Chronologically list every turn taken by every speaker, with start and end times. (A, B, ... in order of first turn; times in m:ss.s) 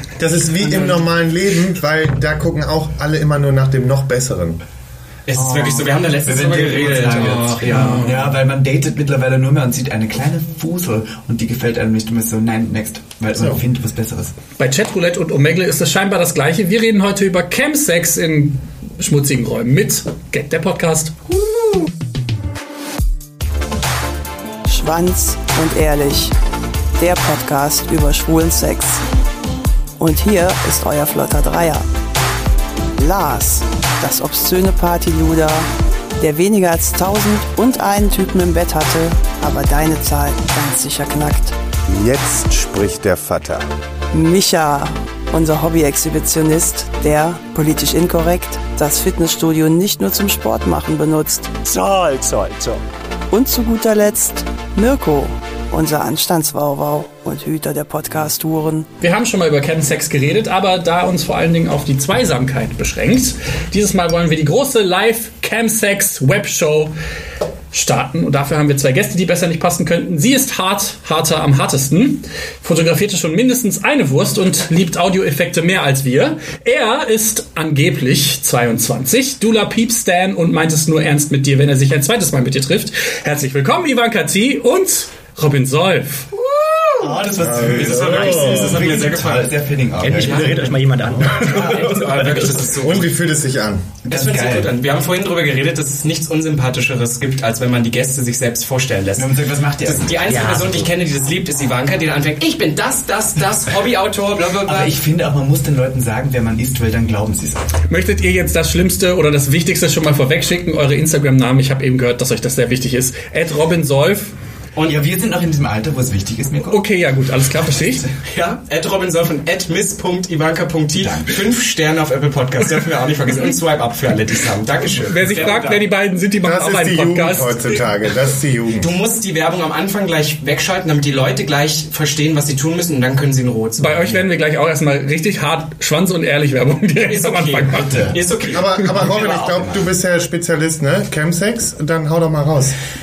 0:00.2-0:04.6 A
0:00.6-0:01.1 B
0:05.3-0:08.2 B
0:05.4-0:14.3 C
0:07.6-0:08.3 D
0:14.6-0:21.3 D
0:24.7-0:26.3 E
0:27.0-0:29.0 E
0:30.0-0:31.9 E
0:33.0-0:35.7 E
0:36.2-0:41.6 E
0:41.9-0:43.7 A
0:44.1-0:51.7 E
0:51.7-0:52.8 F
0:53.3-0:58.9 E
0:59.0-1:06.9 D
1:07.7-1:26.3 D
1:26.9-1:30.8 C
1:27.0-1:29.6 B
1:27.4-1:29.0 A
1:30.0-1:32.6 F
1:30.2-1:30.6 B
1:31.2-1:33.1 B
1:32.8-1:33.9 A
1:34.0-1:34.7 C
1:34.1-1:44.9 B
1:39.2-1:40.9 C
1:40.3-1:40.7 F
1:44.6-1:47.6 C
1:47.9-1:54.3 D
1:54.8-1:56.8 C
1:56.6-1:58.1 D
1:58.2-2:05.8 B
2:01.0-2:01.5 C
2:05.1-2:07.8 D
2:06.4-2:08.9 A
2:08.8-2:14.2 B
2:13.8-2:18.1 D
2:17.0-2:18.7 B
2:17.7-2:19.9 C
2:18.5-2:22.8 A